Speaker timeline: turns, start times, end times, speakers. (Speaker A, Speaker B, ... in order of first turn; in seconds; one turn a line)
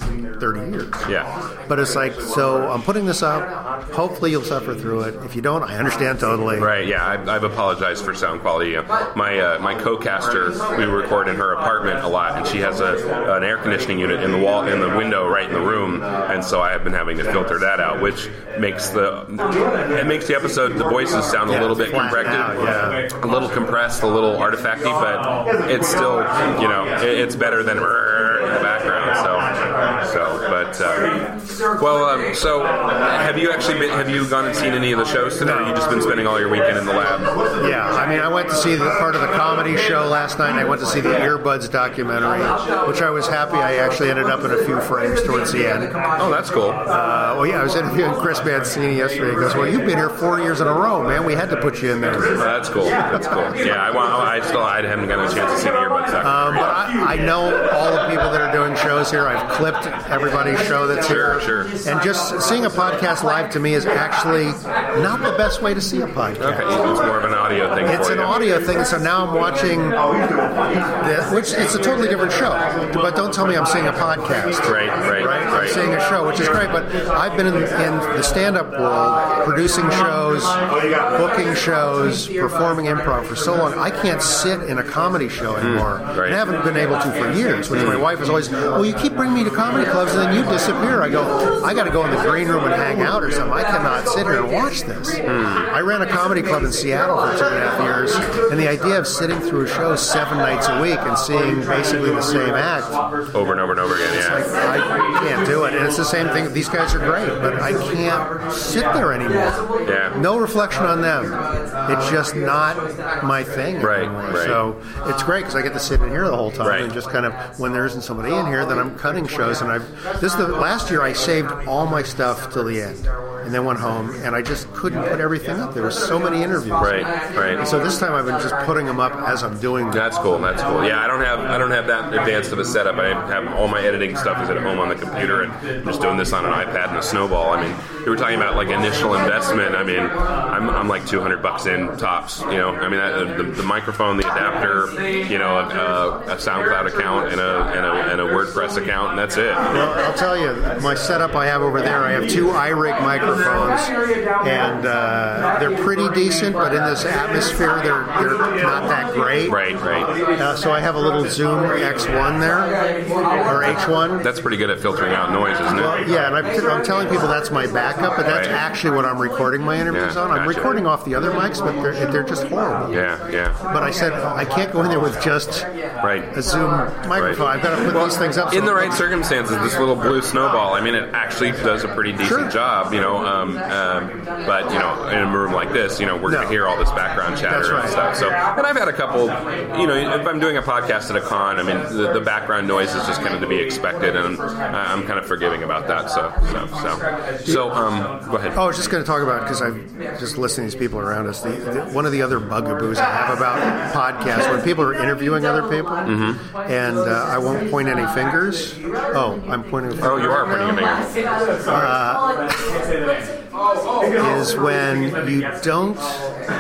Speaker A: 0.4-1.1
Speaker A: 1.7-6.7
Speaker B: 6.6-29.5
Speaker A: 21.5-23.0
Speaker B: 30.0-31.2
Speaker B: 31.8-37.3
Speaker A: 35.4-35.8
Speaker A: 37.6-46.0
Speaker B: 46.2-46.8
Speaker A: 46.9-52.5
Speaker B: 52.3-56.8
Speaker A: 53.1-53.5
Speaker A: 56.2-66.7
Speaker B: 61.0-61.7
Speaker B: 66.4-68.4
Speaker A: 67.8-70.0
Speaker A: 71.0-80.6
Speaker B: 74.7-75.8
Speaker A: 81.1-102.9
Speaker B: 85.6-86.4
Speaker B: 87.7-88.0
Speaker B: 95.3-95.7
Speaker B: 103.3-104.4
Speaker A: 104.1-109.6
Speaker B: 109.8-110.2
Speaker A: 110.1-130.0
Speaker B: 113.8-114.6
Speaker B: 116.6-116.9
Speaker B: 126.8-127.6
Speaker B: 129.9-149.7
Speaker A: 149.7-159.6
Speaker B: 159.5-160.1
Speaker A: 160.3-162.7
Speaker A: 163.4-164.2
Speaker B: 164.2-166.0
Speaker A: 165.7-173.0
Speaker B: 168.3-168.5
Speaker B: 169.9-170.7
Speaker B: 172.9-173.5
Speaker A: 173.7-175.7
Speaker B: 176.0-176.3
Speaker A: 176.3-179.0
Speaker B: 177.2-198.6
Speaker A: 182.2-182.5
Speaker A: 186.3-186.6
Speaker A: 187.4-188.0
Speaker A: 198.5-210.8
Speaker B: 206.1-206.4
Speaker B: 210.0-211.1
Speaker A: 211.7-212.4
Speaker A: 214.2-216.2